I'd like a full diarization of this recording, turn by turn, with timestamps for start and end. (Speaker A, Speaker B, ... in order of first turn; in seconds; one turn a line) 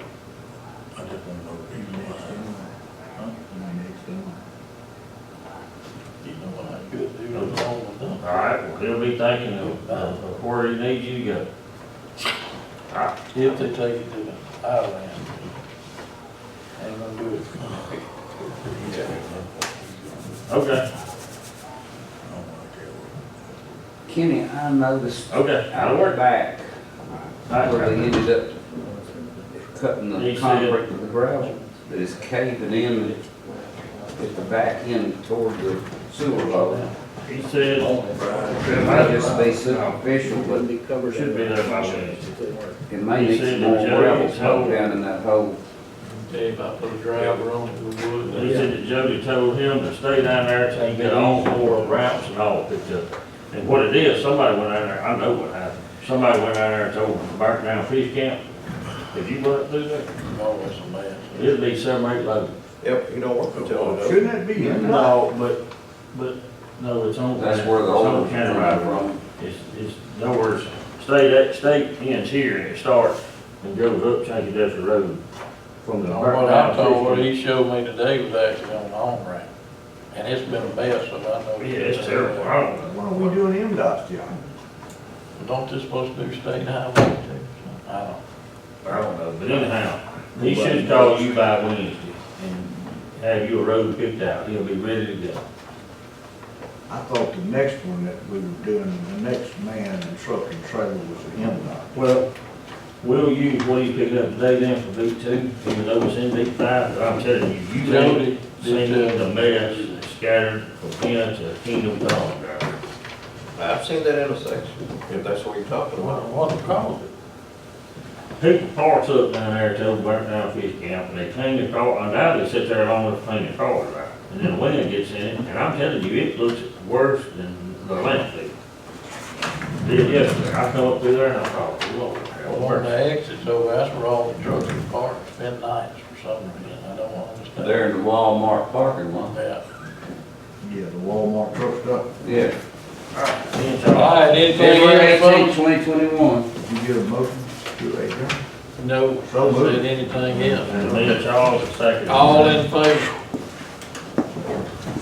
Speaker A: 0.9-2.4
Speaker B: 1.7-2.7
Speaker B: 3.4-4.4
Speaker C: 6.2-8.4
Speaker D: 7.3-7.6
Speaker D: 8.2-11.5
Speaker C: 9.4-10.2
Speaker D: 12.9-13.2
Speaker C: 13.3-15.6
Speaker C: 16.8-17.5
Speaker D: 18.8-19.1
Speaker D: 20.5-20.9
Speaker A: 22.2-23.2
Speaker E: 24.1-26.6
Speaker D: 25.3-26.2
Speaker D: 27.5-28.1
Speaker E: 27.6-28.6
Speaker E: 29.7-33.2
Speaker D: 30.1-30.8
Speaker E: 34.1-36.8
Speaker C: 36.2-37.0
Speaker D: 37.2-38.0
Speaker C: 37.5-39.6
Speaker E: 38.5-40.7
Speaker D: 38.7-40.0
Speaker F: 40.3-42.8
Speaker D: 41.1-42.4
Speaker E: 42.9-45.6
Speaker D: 43.1-44.8
Speaker C: 46.1-48.7
Speaker D: 48.3-58.4
Speaker C: 50.8-52.3
Speaker D: 59.1-60.1
Speaker C: 60.2-61.6
Speaker D: 61.3-62.5
Speaker G: 62.8-64.2
Speaker B: 63.5-65.2
Speaker D: 64.6-65.6
Speaker D: 66.1-75.2
Speaker E: 67.4-69.2
Speaker E: 75.8-76.1
Speaker D: 75.9-77.3
Speaker C: 76.1-79.5
Speaker C: 80.1-82.7
Speaker D: 81.6-83.3
Speaker B: 82.8-84.4
Speaker C: 85.4-88.2
Speaker D: 88.8-95.4
Speaker B: 90.4-91.3
Speaker B: 96.9-102.0
Speaker D: 101.9-102.3
Speaker D: 103.0-112.8
Speaker C: 107.8-110.0
Speaker G: 113.6-116.2
Speaker C: 116.0-117.1
Speaker D: 118.4-128.5
Speaker D: 129.8-132.9
Speaker C: 132.4-137.9
Speaker E: 137.6-139.3
Speaker C: 139.2-139.6
Speaker B: 140.6-142.1
Speaker E: 142.2-142.6
Speaker D: 143.1-144.6
Speaker C: 143.9-145.6
Speaker E: 144.5-146.5
Speaker B: 146.6-148.4
Speaker C: 148.8-151.2
Speaker B: 149.2-151.2
Speaker D: 150.7-152.7
Speaker C: 152.1-153.2